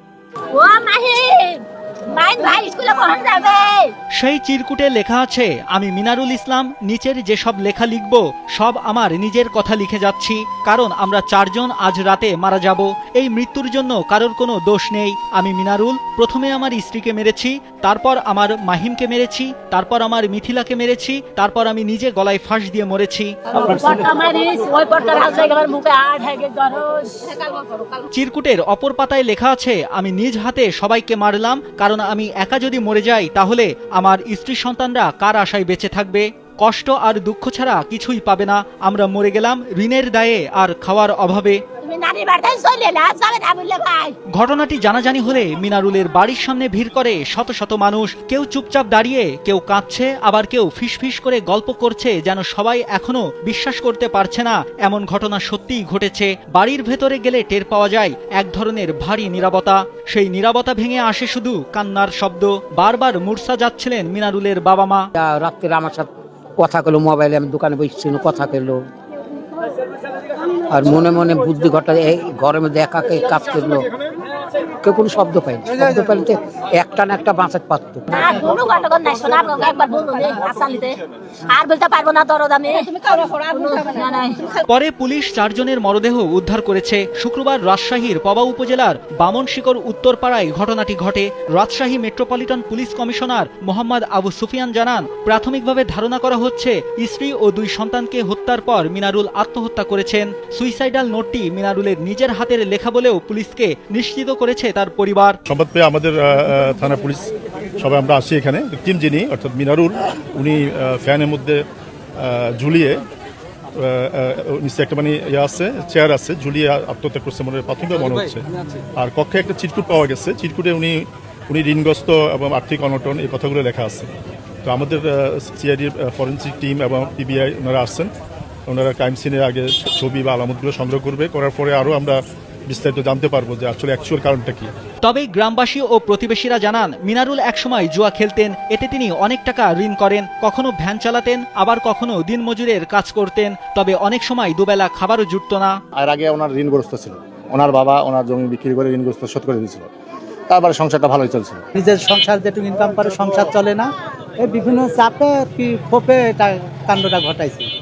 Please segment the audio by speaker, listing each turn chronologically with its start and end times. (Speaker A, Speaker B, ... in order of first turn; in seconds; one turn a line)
Speaker A: 0.5-3.9
Speaker B: 4.2-23.6
Speaker A: 23.6-28.1
Speaker B: 28.1-41.6
Speaker A: 41.8-44.2
Speaker B: 44.3-65.1
Speaker C: 65.2-68.8
Speaker C: 70.7-73.9
Speaker C: 74.8-78.1
Speaker A: 78.1-84.6
Speaker B: 84.7-105.4
Speaker D: 105.5-107.3
Speaker D: 107.8-111.6
Speaker D: 112.2-113.0
Speaker D: 113.8-118.4
Speaker D: 119.0-124.1
Speaker D: 124.6-128.1
Speaker D: 128.7-134.7
Speaker B: 135.0-145.8
Speaker E: 145.9-149.9
Speaker E: 150.5-151.6
Speaker F: 151.8-157.7